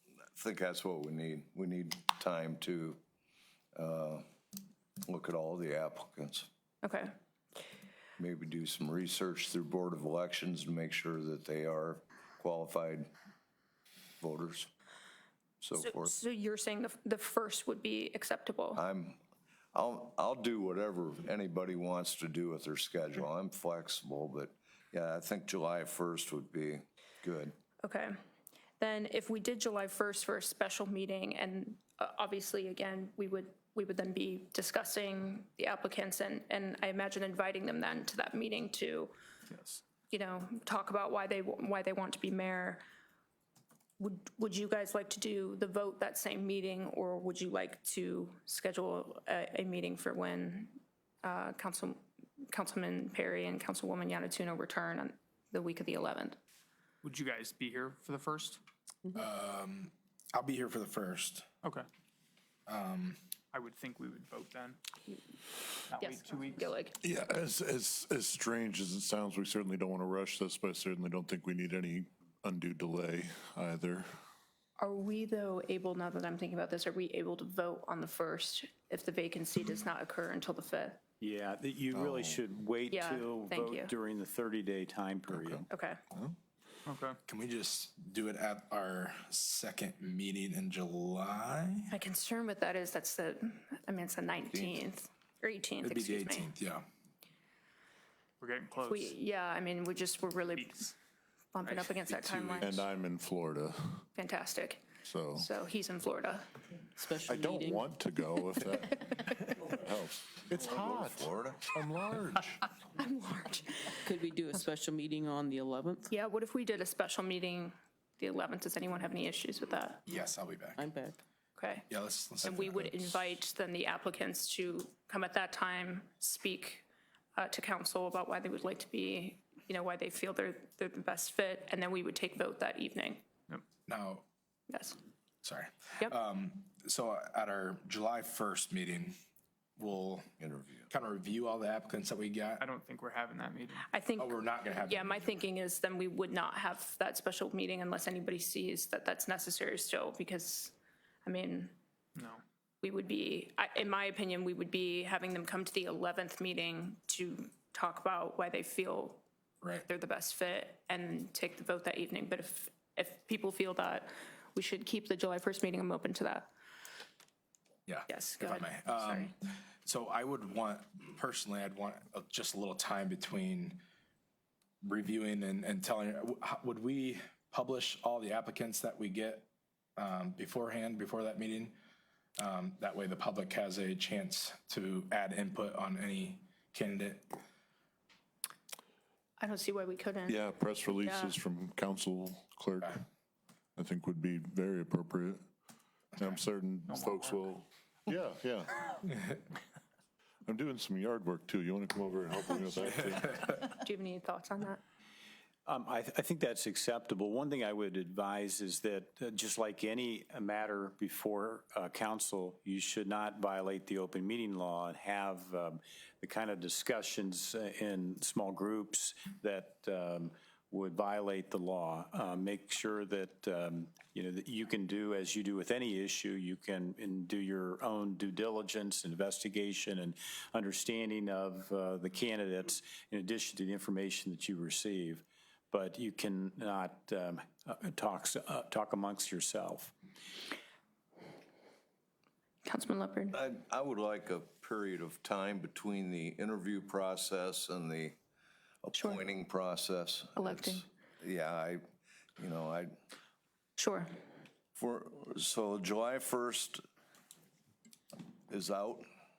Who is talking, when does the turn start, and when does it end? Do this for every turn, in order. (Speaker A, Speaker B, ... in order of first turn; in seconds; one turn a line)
Speaker A: 0.4-3.0
Speaker A: 3.8-4.2
Speaker A: 5.1-6.5
Speaker B: 6.8-7.1
Speaker A: 8.2-13.1
Speaker A: 14.2-14.7
Speaker A: 15.6-16.2
Speaker B: 15.8-18.8
Speaker A: 18.8-19.2
Speaker A: 19.7-27.5
Speaker B: 27.8-28.2
Speaker B: 28.8-39.1
Speaker C: 39.5-39.8
Speaker B: 40.1-42.8
Speaker B: 44.0-56.4
Speaker C: 57.0-58.6
Speaker D: 59.1-61.5
Speaker D: 62.7-63.2
Speaker C: 63.5-64.8
Speaker C: 65.9-66.8
Speaker B: 66.0-67.0
Speaker E: 67.0-74.1
Speaker B: 74.8-81.0
Speaker F: 81.2-85.7
Speaker B: 82.9-83.9
Speaker E: 85.3-86.3
Speaker B: 85.7-86.0
Speaker C: 86.9-87.2
Speaker D: 87.3-91.9
Speaker B: 91.9-96.5
Speaker A: 94.5-94.8
Speaker D: 95.8-96.9
Speaker C: 98.4-99.2
Speaker B: 98.8-101.0
Speaker B: 101.5-102.8
Speaker C: 101.7-102.5
Speaker E: 102.6-104.1
Speaker B: 104.2-106.5
Speaker E: 105.0-105.5
Speaker G: 107.0-107.9
Speaker E: 107.3-112.6
Speaker A: 110.6-111.7
Speaker B: 113.0-114.1
Speaker G: 114.0-116.1
Speaker B: 116.1-120.0
Speaker D: 120.1-120.9
Speaker G: 120.8-121.2
Speaker B: 121.6-121.9
Speaker D: 121.9-123.4
Speaker B: 122.4-126.8
Speaker B: 127.4-133.2
Speaker D: 133.9-134.2
Speaker B: 134.7-135.0
Speaker D: 135.4-139.2
Speaker D: 139.8-140.3
Speaker A: 140.4-140.9
Speaker D: 140.9-142.6
Speaker C: 142.6-143.9
Speaker B: 143.9-151.8
Speaker D: 144.2-145.3
Speaker C: 152.2-152.4
Speaker B: 152.8-159.2
Speaker B: 159.9-166.5
Speaker D: 167.9-169.3
Speaker B: 168.1-169.3
Speaker D: 169.8-173.8
Speaker D: 174.8-181.8
Speaker D: 182.4-187.4
Speaker B: 189.4-191.3
Speaker E: 190.3-193.0
Speaker E: 193.8-195.4
Speaker E: 196.2-198.8
Speaker C: 196.9-197.4
Speaker E: 200.5-203.4
Speaker B: 203.5-204.8
Speaker F: 205.7-239.9
Speaker B: 242.7-243.4
Speaker A: 243.3-248.2
Speaker A: 248.8-251.8
Speaker B: 248.9-249.2
Speaker B: 250.4-250.8
Speaker A: 252.4-252.9
Speaker B: 253.8-254.1
Speaker A: 254.8-256.8
Speaker A: 258.5-259.1